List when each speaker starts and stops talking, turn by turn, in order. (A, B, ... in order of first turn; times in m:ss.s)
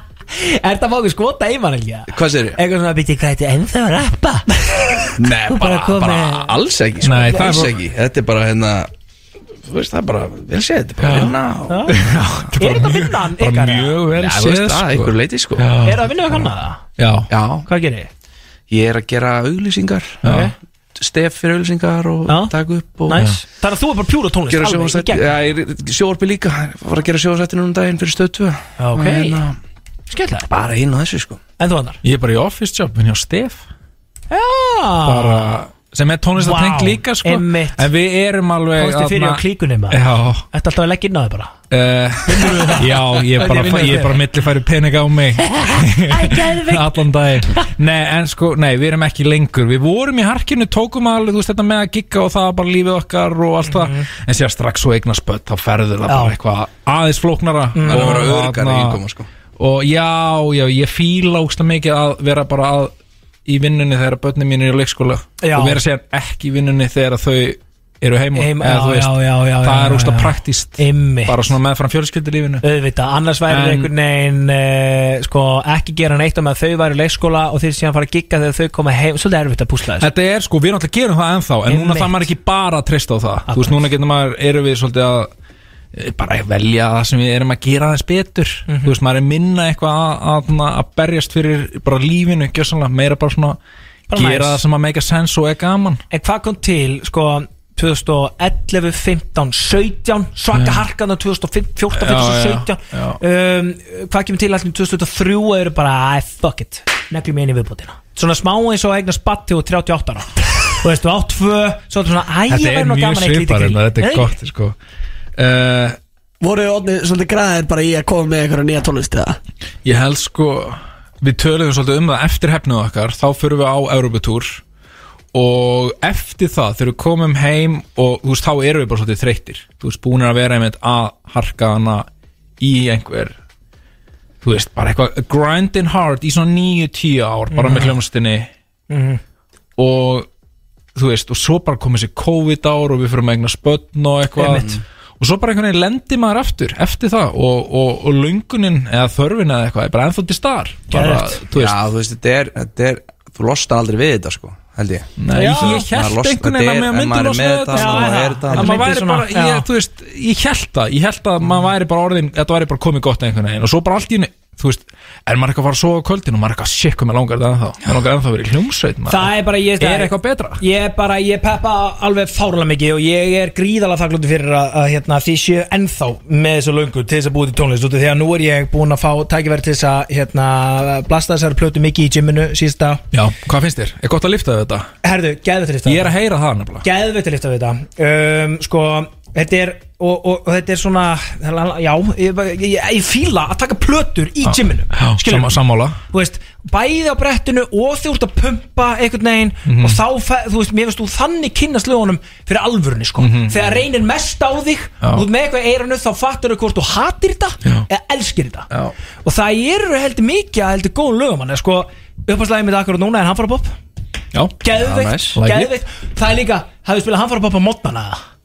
0:00.3-0:06.6 A
0:02.1-0:02.6 B
0:05.2-0:08.9 B
0:07.0-0:07.8 C
0:07.3-0:07.6 A
0:09.6-0:11.9 B
0:11.0-0:11.3 C
0:11.7-0:12.0 A
0:11.9-0:17.3 C
0:12.5-0:14.0 A
0:14.1-0:15.7 B
0:15.8-0:16.8 A
0:17.3-0:17.7 B
0:17.6-0:18.1 A
0:18.7-0:20.2 B
0:20.2-0:20.5 C
0:20.2-0:20.5 A
0:21.0-0:23.2 B
0:22.3-0:22.5 A
0:23.1-0:25.3 A
0:23.1-0:23.4 C
0:24.5-0:29.6 B
0:28.8-0:29.4 A
0:30.1-0:30.5 A
0:30.5-0:31.4 B
0:31.6-0:32.0 A
0:32.0-0:33.6 C
0:34.3-0:35.6 A
0:35.0-0:40.4 C
0:36.4-0:37.9 A
0:38.7-0:41.5 A
0:41.7-0:59.0 C
0:42.3-0:44.2 A
0:46.1-0:47.0 A
0:53.7-0:54.0 A
0:56.1-0:56.4 A
0:57.8-0:58.3 A
0:57.8-0:59.3 B
0:59.6-1:02.9 C
1:03.5-1:12.6 C
1:05.4-1:05.8 A
1:08.4-1:11.5 A
1:12.6-1:20.1 A
1:13.5-1:13.9 C
1:20.0-1:25.3 C
1:21.7-1:22.3 A
1:23.5-1:23.8 A
1:26.0-1:33.6 C
1:28.7-1:28.9 A
1:34.1-1:34.6 A
1:34.1-1:36.0 C
1:36.1-1:54.3 A
1:40.5-1:40.8 C
1:41.9-1:43.2 C
1:52.5-1:54.8 C
1:55.4-1:56.0 C
1:56.4-1:59.4 D
1:59.8-2:04.6 C
2:05.3-2:12.1 C
2:12.6-2:13.4 C
2:14.4-2:18.5 C
2:17.5-2:18.0 A
2:18.9-2:19.2 A
2:19.8-2:20.3 C
2:21.0-2:31.8 C
2:24.4-2:24.7 A
2:30.9-2:31.4 A
2:31.5-2:38.8 B
2:35.2-2:50.6 C
2:35.3-2:35.9 A
2:37.7-2:39.7 A
2:49.1-3:03.0 A
3:03.1-3:04.9 C
3:05.0-3:06.2 A
3:05.8-3:06.8 C
3:06.8-3:15.6 A
3:14.4-3:16.0 C
3:16.1-3:28.7 A
3:19.7-3:20.0 C
3:23.2-3:23.8 C
3:25.0-3:25.3 C
3:29.2-3:33.8 A
3:34.3-3:34.6 C
3:34.6-3:38.2 A
3:34.8-3:35.4 B
3:35.3-3:35.7 C